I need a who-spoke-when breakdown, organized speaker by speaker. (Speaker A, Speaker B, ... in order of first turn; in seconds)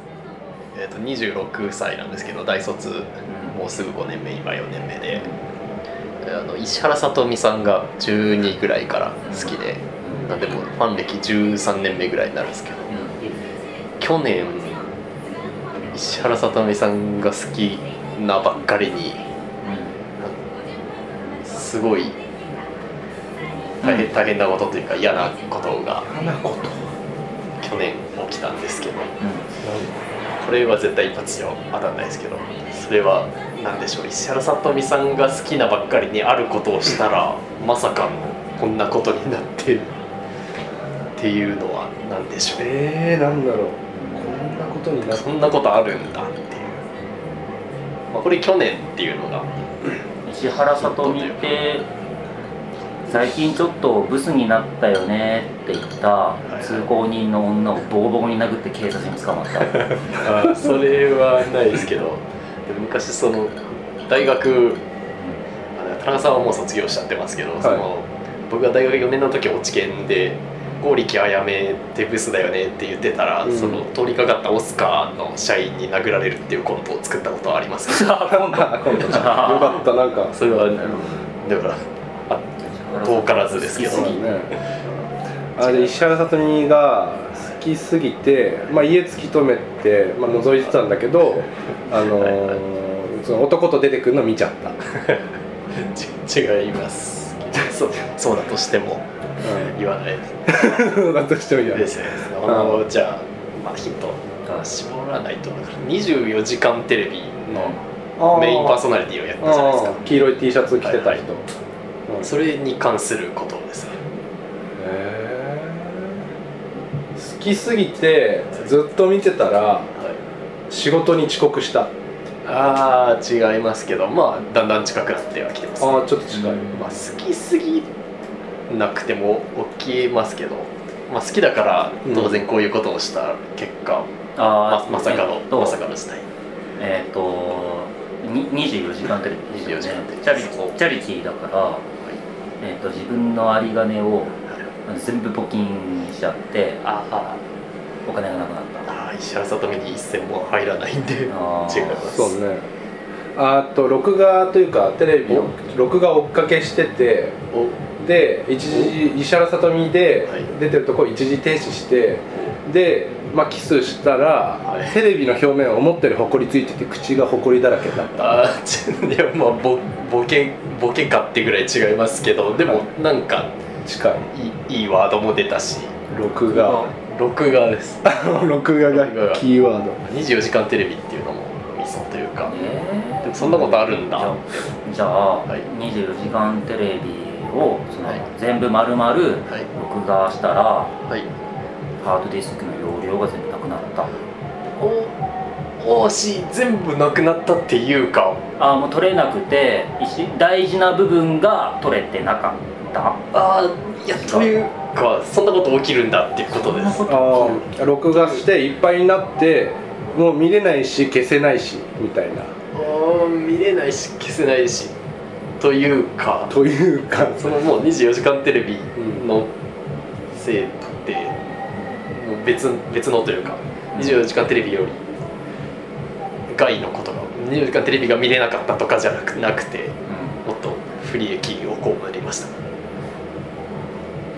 Speaker A: 0.7-5.3, 6.2-13.1, 14.0-14.9, 15.9-19.2, 21.4-22.2, 23.8-26.1, 27.6-29.9, 30.4-39.9, 41.1-42.7, 45.1-46.8, 48.1-49.5, 50.6-51.6, 56.4-56.9, 60.1-64.8, 65.8-78.3, 79.1-79.6, 80.3-84.2, 85.6-86.0, 91.9-92.6, 94.9-111.2, 112.2-114.0, 122.4-126.1, 126.7-127.9, 128.7-134.1, 134.7-136.2, 139.5-140.8, 146.8-147.4, 148.8-152.4, 157.5-157.8, 158.7-158.9, 164.7-164.9, 168.1-173.5, 174.3-176.1, 176.9-178.0, 178.9-179.4, 180.0-182.5, 183.2-184.3, 194.8-195.1, 195.8-198.4, 203.3-207.0, 212.7-214.9, 215.6-216.5, 217.2-219.5, 220.3-221.3, 222.1-225.1, 226.5-232.5
Speaker B: 5.1-5.4, 9.3-10.2, 12.9-13.3, 19.6-19.9, 23.8-24.1, 50.2-51.9, 53.1-60.1, 77.9-79.8, 82.6-84.2, 107.5-107.8, 126.3-127.0, 134.3-135.8, 136.8-141.8, 142.6-146.8, 148.1-148.9, 151.3-152.1, 176.3-176.9, 182.4-190.9, 192.0-194.1, 198.6-203.2, 204.1-204.5, 206.5-208.4, 223.9-224.2, 230.1-230.4
Speaker C: 26.0-26.9, 42.6-45.2, 73.4-73.8, 78.2-80.3, 83.8-84.5, 85.6-94.8, 99.4-99.8, 100.5-101.9, 102.5-102.8, 108.2-108.8, 109.4-111.4, 114.8-116.2, 117.2-119.9, 120.7-121.9, 125.8-126.7, 132.1-132.4, 152.0-152.6, 153.3-157.4, 158.0-168.4, 173.8-174.3, 176.1-176.9, 178.0-180.0, 207.0-212.5, 216.5-217.5